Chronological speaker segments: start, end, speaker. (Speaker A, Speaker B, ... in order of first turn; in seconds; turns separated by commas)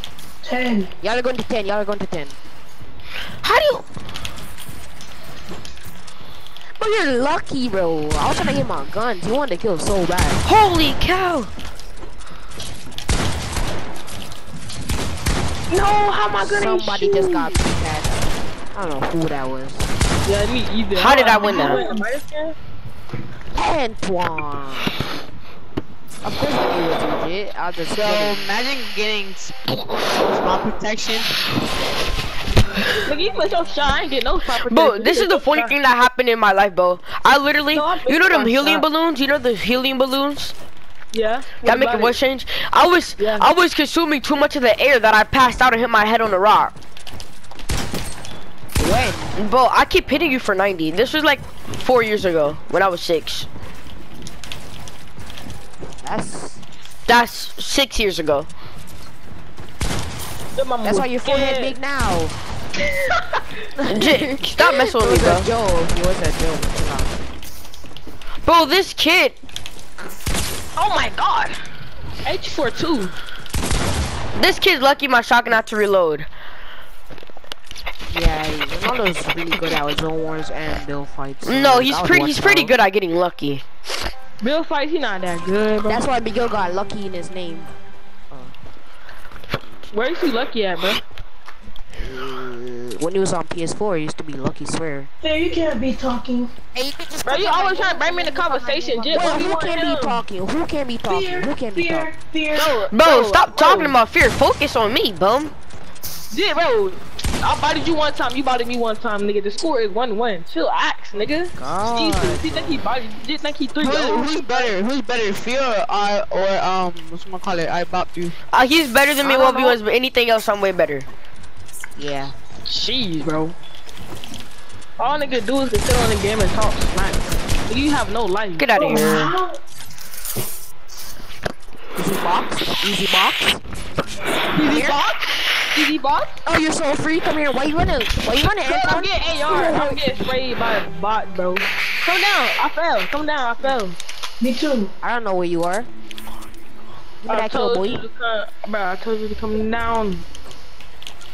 Speaker A: 0.4-0.9, Speaker B: 1.0-2.4, Speaker C: 3.4-3.8, Speaker B: 6.8-10.4, Speaker C: 10.4-11.5, Speaker D: 15.7-17.6, Speaker B: 16.4-19.9, Speaker D: 20.2-22.6, Speaker C: 20.9-21.8, Speaker A: 21.4-22.0, Speaker B: 23.5-25.0, Speaker B: 26.2-28.5, Speaker E: 27.9-31.3, Speaker D: 33.0-35.8, Speaker C: 34.6-40.5, Speaker D: 37.7-38.9, Speaker D: 41.1-42.2, Speaker C: 41.6-46.7, Speaker D: 43.2-43.5, Speaker B: 48.8-49.4, Speaker C: 49.4-53.5, Speaker B: 56.0-56.6, Speaker C: 57.1-58.5, Speaker D: 60.5-61.7, Speaker B: 60.8-62.3, Speaker B: 63.8-67.2, Speaker C: 63.9-65.5, Speaker C: 68.4-69.4, Speaker D: 70.8-71.5, Speaker D: 72.2-73.1, Speaker C: 74.3-76.3, Speaker B: 78.1-82.8, Speaker C: 81.5-83.6, Speaker D: 84.4-86.1, Speaker B: 85.8-87.7, Speaker D: 89.9-91.0, Speaker B: 92.0-95.1, Speaker A: 95.2-96.5, Speaker B: 96.7-102.1, Speaker D: 97.2-100.2, Speaker A: 101.1-102.8, Speaker D: 102.5-104.0, Speaker C: 102.9-105.5, Speaker D: 106.3-114.7, Speaker B: 111.5-112.8, Speaker E: 113.8-118.3, Speaker C: 118.5-121.0, Speaker B: 119.2-119.7, Speaker D: 119.4-119.7, Speaker B: 122.0-122.3, Speaker D: 122.7-123.5, Speaker D: 125.0-128.7, Speaker C: 128.6-129.3, Speaker A: 128.7-129.5, Speaker B: 131.9-133.6, Speaker D: 134.5-136.3, Speaker B: 134.6-135.0, Speaker B: 136.4-140.0, Speaker D: 138.6-144.0, Speaker A: 144.4-144.9, Speaker B: 145.0-145.9, Speaker B: 147.2-148.0, Speaker D: 147.3-150.2